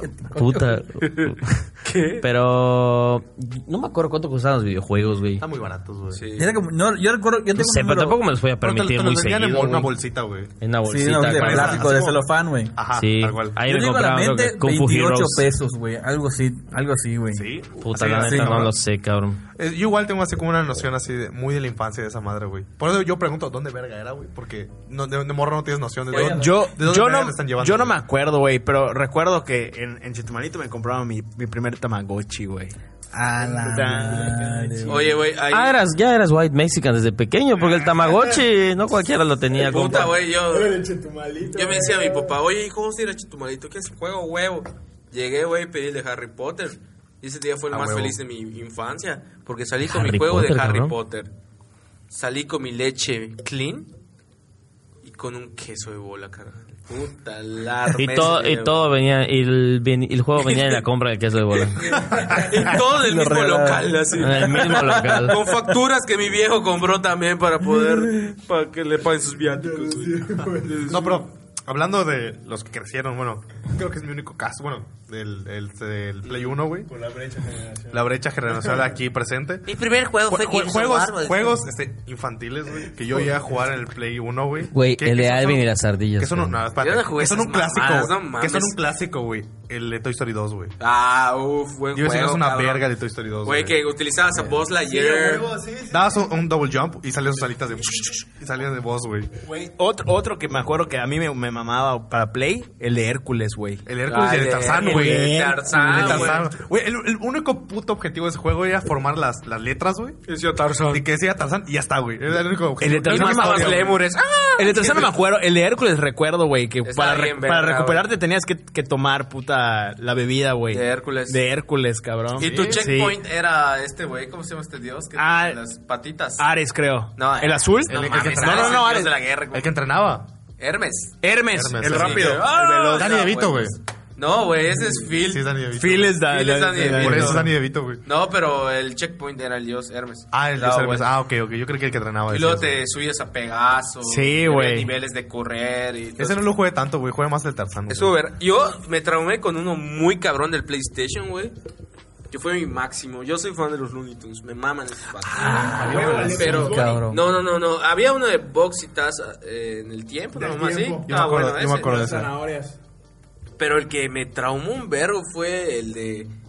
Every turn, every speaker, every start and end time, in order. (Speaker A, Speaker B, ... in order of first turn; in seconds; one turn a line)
Speaker A: 0.3-1.4
Speaker B: 1.0-2.2
Speaker A: 2.2-5.4
Speaker C: 5.4-6.3
Speaker B: 6.1-6.5
Speaker D: 6.4-8.2
Speaker A: 7.5-9.9
Speaker C: 8.6-10.5
Speaker A: 10.6-12.0
Speaker D: 10.8-12.8
Speaker C: 11.3-13.6
Speaker A: 12.9-15.5
Speaker D: 13.6-17.5
Speaker C: 17.3-18.8
Speaker A: 17.8-19.4
Speaker D: 18.1-18.7
Speaker C: 19.6-28.0
Speaker B: 26.1-26.5
Speaker E: 26.1-35.2
Speaker D: 33.2-35.2
Speaker B: 34.9-35.8
Speaker A: 35.5-40.2
Speaker E: 39.6-42.4
Speaker B: 39.6-40.8
Speaker B: 41.5-51.3
Speaker C: 47.7-48.2
Speaker A: 49.9-51.0
Speaker B: 52.1-53.9
Speaker B: 55.0-58.8
Speaker A: 58.0-62.0
Speaker B: 60.4-60.8
Speaker B: 61.8-71.1
Speaker D: 62.5-64.8
Speaker A: 64.2-65.4
Speaker E: 69.6-71.2
Speaker C: 70.8-76.9
Speaker E: 76.9-78.0
Speaker C: 77.9-90.8
Speaker B: 79.7-81.6
Speaker A: 84.7-86.6
Speaker B: 86.8-88.8
Speaker B: 90.8-92.9
Speaker C: 91.9-93.8
Speaker B: 93.5-95.5
Speaker E: 94.8-96.3
Speaker C: 95.9-99.3
Speaker E: 99.4-103.8
Speaker C: 103.9-110.2
Speaker B: 104.1-106.5
Speaker E: 104.8-106.4
Speaker B: 110.3-111.0
Speaker C: 110.9-114.0
Speaker E: 112.8-114.0
Speaker B: 113.0-115.1
Speaker E: 114.6-123.2
Speaker B: 116.8-118.1
Speaker B: 120.7-121.4
Speaker C: 122.3-122.8
Speaker B: 122.4-126.5
Speaker E: 125.2-125.6
Speaker E: 126.4-129.1
Speaker B: 127.2-129.7
Speaker C: 127.9-129.0
Speaker C: 129.5-130.3
Speaker B: 130.6-131.2
Speaker E: 131.2-133.1
Speaker C: 131.5-133.8
Speaker B: 131.8-135.5
Speaker C: 135.2-136.2
Speaker E: 135.8-137.5
Speaker B: 136.2-137.5
Speaker C: 136.9-138.0
Speaker B: 138.0-141.1
Speaker C: 140.3-142.8
Speaker B: 142.3-146.4
Speaker E: 144.0-144.9
Speaker C: 146.2-148.2
Speaker B: 147.9-151.5
Speaker B: 152.3-161.9
Speaker E: 155.3-157.0
Speaker D: 155.4-157.2
Speaker C: 155.7-156.7
Speaker E: 160.3-161.1
Speaker C: 161.1-162.3
Speaker E: 161.7-162.8
Speaker B: 163.6-166.3